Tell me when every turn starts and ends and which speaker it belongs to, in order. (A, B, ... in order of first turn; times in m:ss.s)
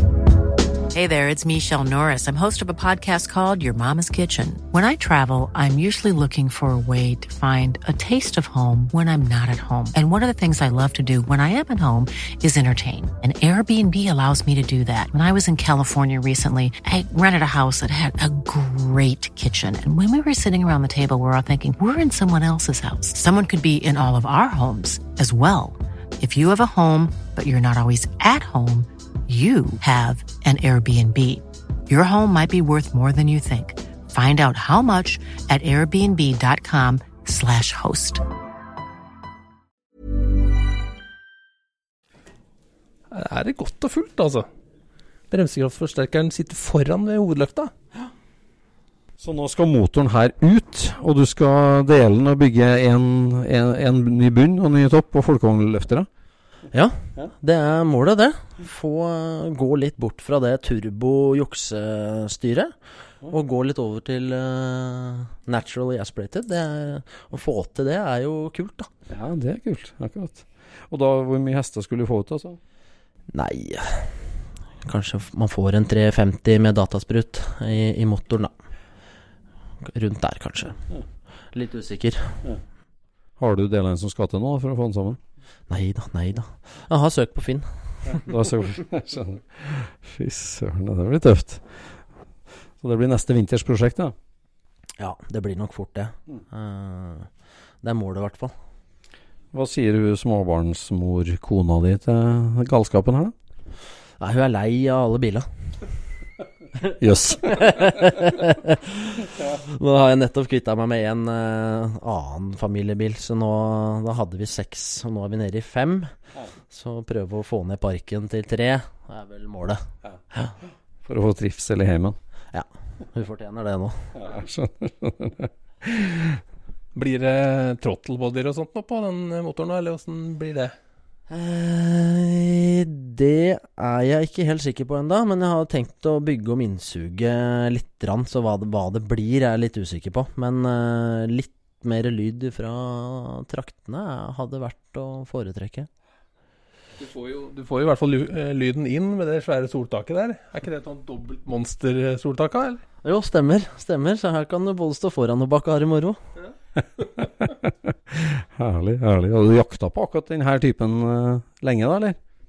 0:00.9-0:38.2 A
0:43.1-0:44.5 B
0:45.3-0:47.7 B
0:49.2-0:56.1 C
0:56.7-1:02.7 D
1:03.3-1:08.9 D
1:09.1-1:12.6 C
1:13.3-1:14.2 D
1:14.8-1:18.5 D
1:19.8-1:20.8 D
1:21.5-1:22.4 D
1:23.4-1:25.2 C
1:25.7-1:28.2 D
1:28.1-1:32.0 C
1:32.8-1:34.1 C
1:35.0-1:37.3 D
1:37.8-1:38.5 D
1:39.5-1:43.3 C
1:44.2-1:45.5 D
1:46.8-1:56.1 D
1:47.0-1:48.1 C
1:56.7-1:59.8 D
2:01.0-2:02.2 C
2:02.5-2:04.1 D
2:04.1-2:06.4 C
2:06.9-2:10.7 B
2:11.3-2:25.9 D
2:27.0-2:32.8 B
2:33.0-2:36.2 D
2:37.2-2:42.2 C